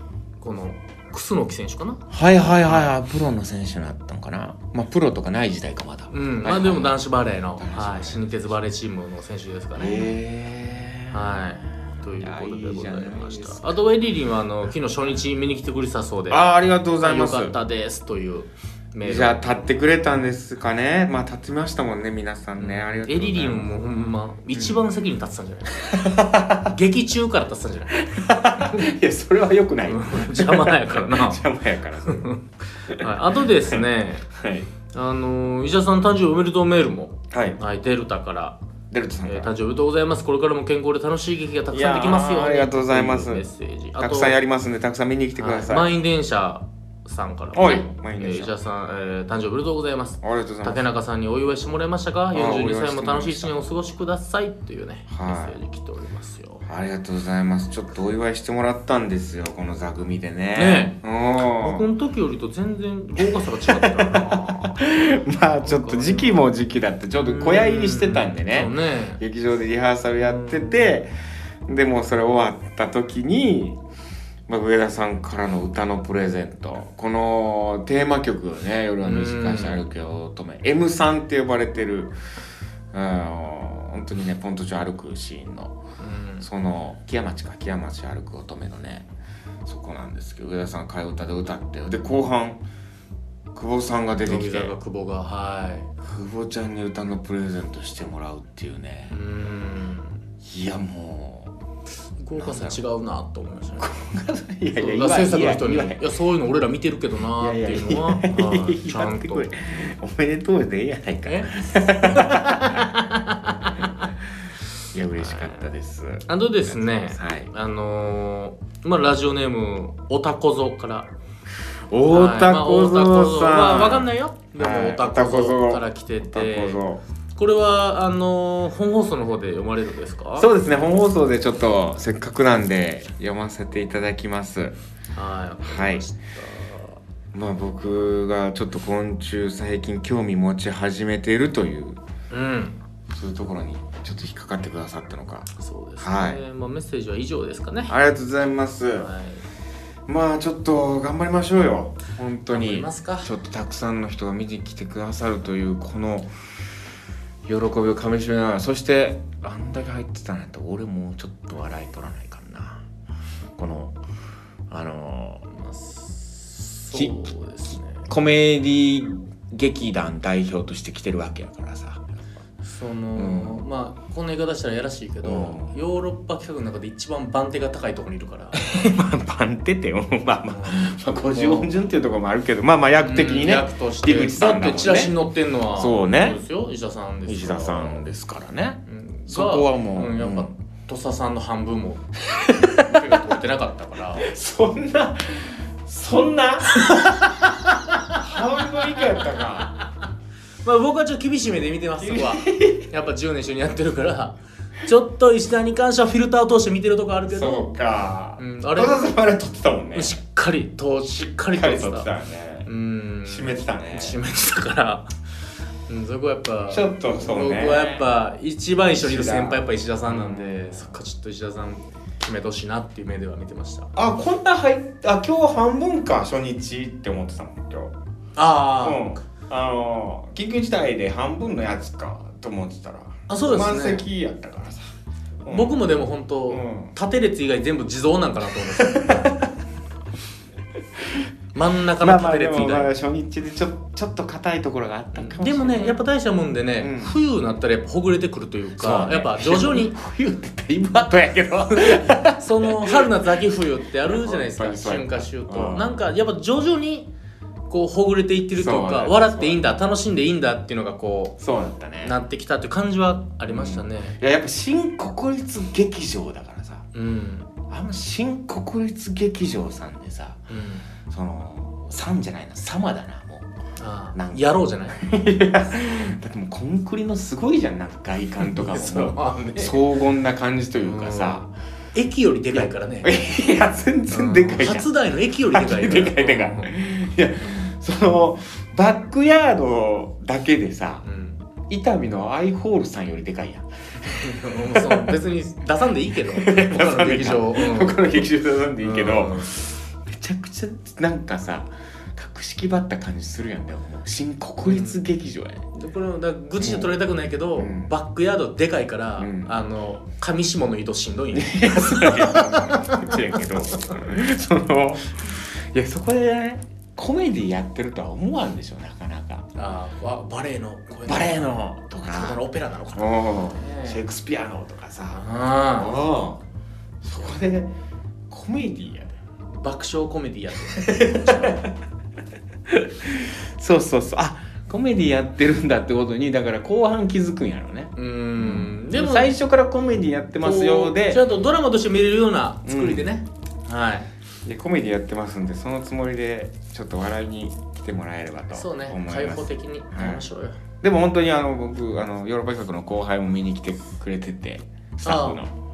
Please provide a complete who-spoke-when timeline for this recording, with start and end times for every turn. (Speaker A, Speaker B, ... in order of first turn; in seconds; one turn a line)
Speaker A: 0.4-2.0
Speaker B: 2.1-7.0
Speaker A: 2.6-2.9
Speaker A: 6.1-10.1
Speaker B: 7.5-8.6
Speaker B: 9.8-13.8
Speaker A: 11.1-16.4
Speaker B: 16.3-17.5
Speaker A: 17.0-19.4
Speaker B: 19.0-23.7
Speaker A: 22.6-26.1
Speaker B: 24.5-24.8
Speaker B: 25.9-26.7
Speaker A: 26.6-28.9
Speaker B: 28.0-32.3
Speaker A: 29.9-31.4
Speaker A: 32.0-34.3
Speaker B: 32.9-34.7
Speaker A: 34.9-38.6
Speaker B: 37.3-37.6
Speaker B: 38.9-39.5
Speaker A: 39.2-44.4
Speaker B: 41.7-43.4
Speaker B: 44.0-45.9
Speaker A: 45.4-56.6
Speaker B: 47.5-48.5
Speaker B: 50.2-50.8
Speaker B: 52.3-53.6
Speaker B: 55.1-55.6
Speaker B: 56.6-61.9
Speaker A: 60.5-64.8
Speaker B: 63.2-71.1
Speaker A: 65.6-66.4
Speaker A: 67.1-69.2
Speaker A: 70.2-70.9
Speaker B: 71.7-73.8
Speaker B: 74.5-82.2
Speaker A: 79.0-79.9
Speaker B: 82.9-85.8
Speaker A: 86.0-86.5
Speaker B: 86.4-89.1
Speaker B: 89.6-92.6
Speaker B: 93.5-94.7
Speaker A: 94.2-95.9
Speaker B: 96.0-99.2
Speaker A: 99.1-100.2
Speaker B: 100.4-101.5
Speaker A: 102.2-104.0
Speaker B: 102.3-102.8
Speaker B: 103.8-106.1
Speaker A: 104.7-109.5
Speaker B: 107.4-113.0
Speaker A: 111.2-114.1
Speaker B: 113.6-114.1
Speaker B: 114.9-117.5
Speaker A: 115.2-115.7
Speaker A: 116.3-121.1
Speaker B: 121.9-127.0
Speaker A: 122.1-126.8
Speaker A: 127.3-130.5
Speaker B: 130.3-134.8
Speaker A: 135.1-137.0
Speaker B: 135.6-136.1
Speaker B: 137.3-142.0
Speaker A: 142.3-142.8
Speaker B: 143.1-145.5
Speaker A: 145.5-147.9
Speaker B: 146.0-146.4
Speaker B: 147.9-149.1
Speaker A: 148.9-149.4
Speaker B: 150.1-156.3
Speaker A: 152.5-153.3
Speaker B: 157.4-162.8
Speaker B: 163.6-164.0
Speaker B: 164.7-165.4
Speaker A: 165.5-168.1
Speaker B: 166.9-172.1
Speaker A: 172.6-178.6
Speaker B: 173.1-173.6
Speaker B: 175.2-175.7
Speaker B: 178.5-185.2
Speaker A: 180.5-181.7
Speaker A: 183.0-188.0
Speaker B: 185.7-186.4
Speaker B: 187.3-190.5
Speaker A: 188.9-192.1
Speaker B: 192.3-193.2
Speaker A: 192.7-194.3
Speaker B: 194.2-196.7
Speaker A: 196.8-198.2
Speaker B: 198.1-199.7
Speaker A: 200.6-207.7
Speaker B: 202.0-202.9
Speaker B: 207.3-210.2
Speaker A: 208.4-209.0
Speaker A: 209.9-212.1
Speaker B: 211.1-212.7
Speaker A: 212.7-215.1
Speaker B: 213.2-214.2
Speaker A: 215.9-223.9
Speaker B: 216.7-218.1
Speaker B: 219.0-220.9
Speaker B: 223.9-227.9
Speaker A: 228.3-229.0
Speaker B: 228.8-234.8
Speaker A: 233.3-234.0
Speaker B: 235.4-235.8
Speaker A: 235.5-239.4
Speaker B: 236.5-236.9
Speaker B: 238.8-239.5
Speaker B: 241.0-241.3
Speaker A: 241.5-242.9
Speaker B: 242.0-246.0
Speaker A: 245.1-249.9
Speaker B: 246.8-247.2
Speaker B: 248.8-253.1
Speaker A: 251.7-257.1
Speaker B: 254.0-255.9
Speaker A: 257.7-261.4
Speaker B: 258.5-259.6
Speaker B: 261.4-262.1
Speaker A: 262.0-264.2
Speaker B: 263.5-266.9
Speaker A: 266.9-267.5
Speaker B: 267.7-270.4
Speaker A: 270.5-270.9
Speaker B: 271.0-273.5
Speaker A: 273.8-275.0
Speaker B: 274.1-281.5
Speaker A: 278.4-279.8
Speaker A: 280.8-283.1
Speaker B: 282.5-284.9
Speaker A: 284.1-286.7
Speaker B: 285.4-291.0
Speaker A: 291.0-291.4
Speaker B: 291.7-295.1
Speaker A: 294.0-298.1
Speaker B: 296.2-305.7
Speaker A: 298.8-299.5
Speaker A: 304.6-305.0
Speaker A: 305.7-313.2
Speaker B: 306.6-307.0
Speaker B: 307.5-307.9
Speaker B: 309.2-309.5
Speaker B: 311.3-319.5
Speaker A: 319.5-324.0
Speaker B: 321.1-322.4
Speaker B: 322.9-326.4
Speaker A: 325.1-325.9
Speaker B: 327.0-327.7
Speaker B: 328.3-329.2
Speaker A: 329.5-331.7
Speaker B: 330.7-331.7
Speaker B: 332.7-341.2
Speaker A: 337.9-339.3
Speaker A: 340.4-344.1
Speaker B: 342.6-343.1
Speaker B: 344.4-350.2
Speaker A: 348.5-350.6
Speaker B: 350.8-355.5
Speaker A: 355.0-355.4